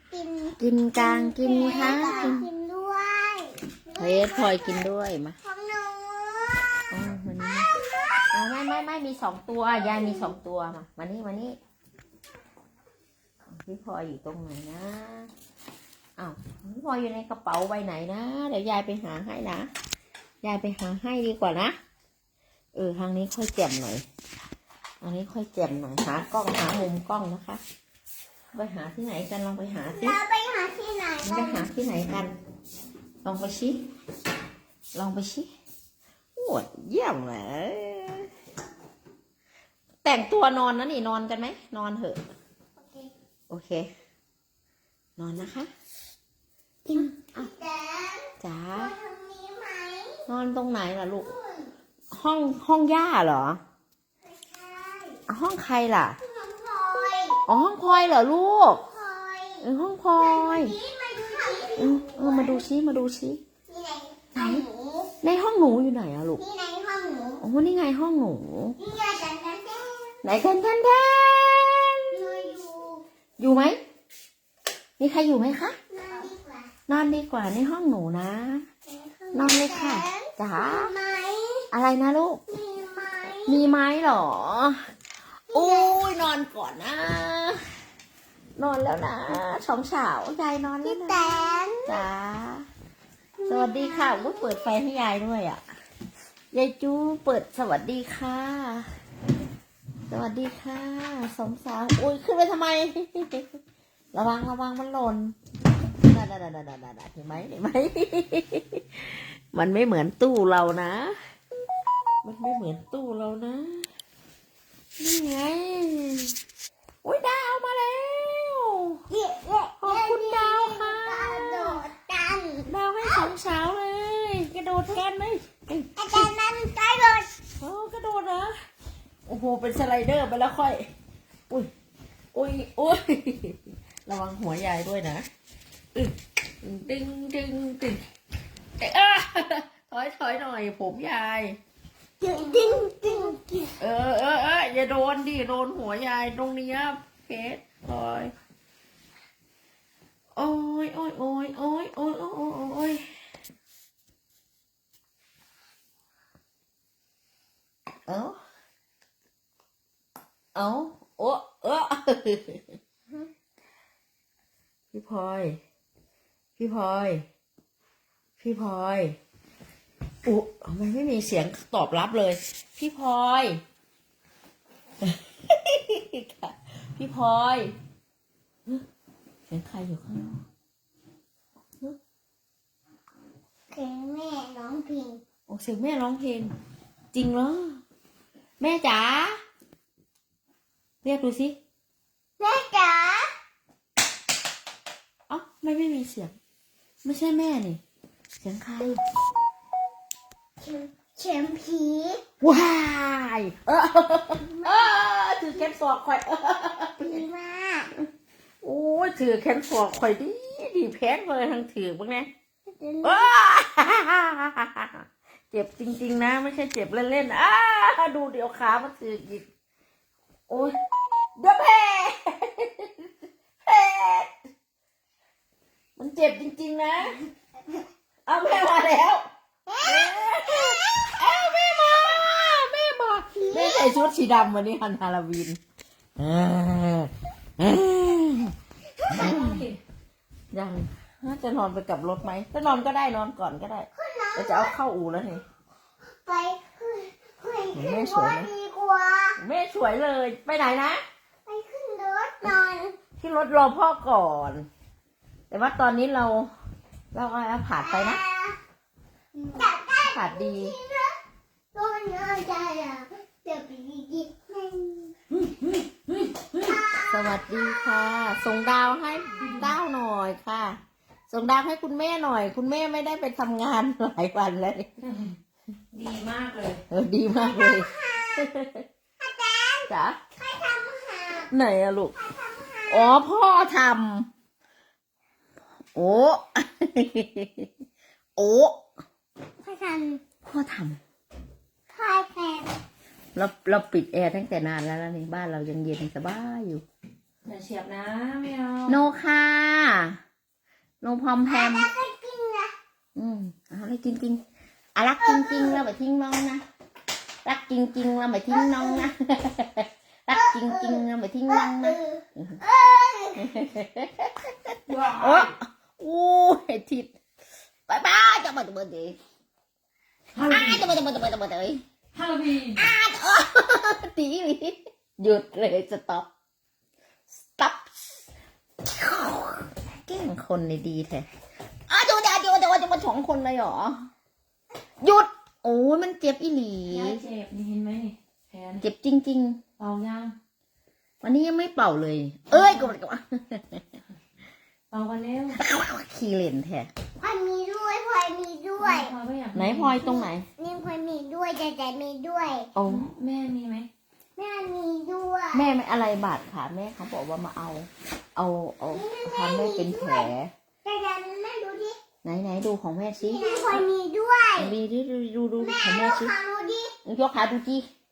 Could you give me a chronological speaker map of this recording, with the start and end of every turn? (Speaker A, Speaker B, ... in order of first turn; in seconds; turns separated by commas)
Speaker A: 0.1-4.8, Speaker B: 0.6-2.5, Speaker B: 4.0-5.4, Speaker A: 5.4-6.6, Speaker B: 6.9-7.7, Speaker A: 7.9-8.2, Speaker B: 8.3-11.6, Speaker A: 9.8-10.3, Speaker B: 13.5-15.3, Speaker B: 16.2-19.7, Speaker B: 20.4-21.7, Speaker B: 22.7-24.0, Speaker B: 25.0-27.6, Speaker B: 28.5-30.2, Speaker A: 29.9-31.6, Speaker B: 31.2-32.3, Speaker B: 33.2-33.8, Speaker B: 34.9-35.5, Speaker B: 36.3-38.3, Speaker B: 40.0-42.2, Speaker A: 42.8-43.1, Speaker B: 43.5-43.9, Speaker B: 45.2-45.7, Speaker B: 46.9-47.5, Speaker A: 46.9-50.2, Speaker B: 48.4-48.9, Speaker B: 50.3-51.3, Speaker A: 51.2-51.7, Speaker B: 52.1-53.6, Speaker A: 54.2-55.2, Speaker B: 55.3-56.2, Speaker A: 56.2-57.4, Speaker B: 57.5-58.8, Speaker A: 58.7-59.6, Speaker B: 59.6-60.7, Speaker A: 60.2-62.6, Speaker B: 61.8-63.4, Speaker A: 63.7-65.1, Speaker B: 64.3-64.6, Speaker B: 65.2-66.4, Speaker A: 66.4-67.4, Speaker B: 67.4-68.8, Speaker A: 68.8-70.1, Speaker B: 70.2-72.4, Speaker A: 72.1-73.0, Speaker B: 73.4-73.8, Speaker B: 75.0-75.8, Speaker A: 75.9-76.7, Speaker B: 76.9-78.6, Speaker A: 78.9-81.7, Speaker B: 79.3-80.9, Speaker B: 81.7-82.4, Speaker A: 82.5-83.7, Speaker B: 83.5-84.8, Speaker B: 85.5-87.6, Speaker A: 85.5-86.0, Speaker B: 88.6-92.7, Speaker A: 90.8-92.0, Speaker A: 93.4-94.7, Speaker B: 93.5-95.6, Speaker B: 96.5-98.9, Speaker B: 100.1-103.5, Speaker B: 104.1-105.3, Speaker B: 106.0-111.2, Speaker B: 112.2-113.9, Speaker B: 115.0-116.3, Speaker B: 117.0-119.0, Speaker A: 119.1-123.3, Speaker B: 119.8-121.8, Speaker B: 122.7-126.3, Speaker A: 126.0-127.3, Speaker B: 127.6-128.5, Speaker B: 129.2-130.9, Speaker B: 132.3-135.2, Speaker B: 135.9-138.0, Speaker B: 138.8-141.6, Speaker A: 142.2-143.7, Speaker B: 143.8-148.3, Speaker B: 150.3-153.0, Speaker B: 158.1-158.4, Speaker B: 160.5-162.8, Speaker B: 164.9-165.6, Speaker B: 166.6-167.2, Speaker B: 168.4-169.2, Speaker B: 170.2-173.6, Speaker B: 175.0-177.7, Speaker B: 179.5-180.4, Speaker A: 183.7-185.2, Speaker B: 185.5-186.5, Speaker B: 187.1-187.8, Speaker B: 188.6-189.4, Speaker B: 191.0-191.6, Speaker A: 192.4-193.3, Speaker B: 195.3-196.3, Speaker B: 197.0-197.8, Speaker B: 198.4-199.0, Speaker A: 200.6-202.2, Speaker B: 202.4-207.2, Speaker A: 204.4-204.9, Speaker A: 207.0-207.9, Speaker B: 208.6-212.3, Speaker A: 212.7-213.3, Speaker B: 213.0-219.4, Speaker B: 220.5-220.7, Speaker B: 221.4-223.1, Speaker B: 223.6-224.3, Speaker B: 226.0-227.2, Speaker B: 228.2-229.2, Speaker A: 229.7-231.0, Speaker B: 229.8-235.6, Speaker A: 233.3-234.1, Speaker B: 236.2-238.5, Speaker C: 239.0-239.8, Speaker B: 239.1-239.6, Speaker B: 240.5-245.4, Speaker A: 243.9-244.8, Speaker A: 246.1-249.4, Speaker B: 247.7-248.5, Speaker B: 249.4-251.0, Speaker A: 251.4-252.9, Speaker B: 253.2-254.7, Speaker B: 255.5-256.5, Speaker B: 257.1-258.2, Speaker A: 257.8-258.6, Speaker A: 259.4-261.2, Speaker B: 260.0-260.8, Speaker A: 261.7-265.1, Speaker A: 266.6-267.7, Speaker B: 267.1-270.8, Speaker B: 271.3-274.9, Speaker C: 275.0-275.4, Speaker C: 275.9-276.8, Speaker B: 276.9-278.8, Speaker A: 277.4-278.5, Speaker A: 279.2-281.5, Speaker B: 279.9-280.2, Speaker B: 281.5-282.1, Speaker A: 282.1-283.2, Speaker B: 282.9-284.3, Speaker B: 285.9-287.7, Speaker B: 288.4-288.8, Speaker A: 289.6-290.2, Speaker B: 290.4-291.0, Speaker A: 291.9-292.8, Speaker B: 293.3-296.8, Speaker C: 297.4-299.0, Speaker B: 298.9-300.2, Speaker B: 301.0-301.9, Speaker A: 301.4-302.7, Speaker B: 303.1-304.4, Speaker B: 304.9-306.6, Speaker A: 305.2-305.8, Speaker B: 307.4-312.6, Speaker A: 308.5-309.1, Speaker A: 310.3-313.6, Speaker B: 313.4-314.5, Speaker C: 314.9-315.5, Speaker B: 315.1-317.1, Speaker B: 317.9-319.2, Speaker C: 320.3-320.9, Speaker B: 320.4-321.8, Speaker C: 322.1-322.8, Speaker B: 322.8-326.3, Speaker B: 327.3-328.2, Speaker B: 328.8-331.2, Speaker B: 331.9-334.0, Speaker B: 335.0-337.2, Speaker C: 336.9-338.8, Speaker B: 338.8-339.6, Speaker C: 339.8-340.3, Speaker B: 341.2-343.8, Speaker C: 342.5-342.9, Speaker C: 344.9-345.6, Speaker B: 345.5-346.9, Speaker A: 347.2-349.1, Speaker C: 348.8-350.0, Speaker B: 349.5-350.4, Speaker A: 350.0-352.7, Speaker B: 352.8-353.1, Speaker C: 352.9-353.9, Speaker A: 354.4-355.7, Speaker B: 355.5-360.5, Speaker A: 358.9-360.3, Speaker A: 360.8-362.0, Speaker B: 362.2-363.8, Speaker A: 363.2-364.7, Speaker B: 364.6-366.3, Speaker A: 365.6-366.9, Speaker B: 367.0-367.9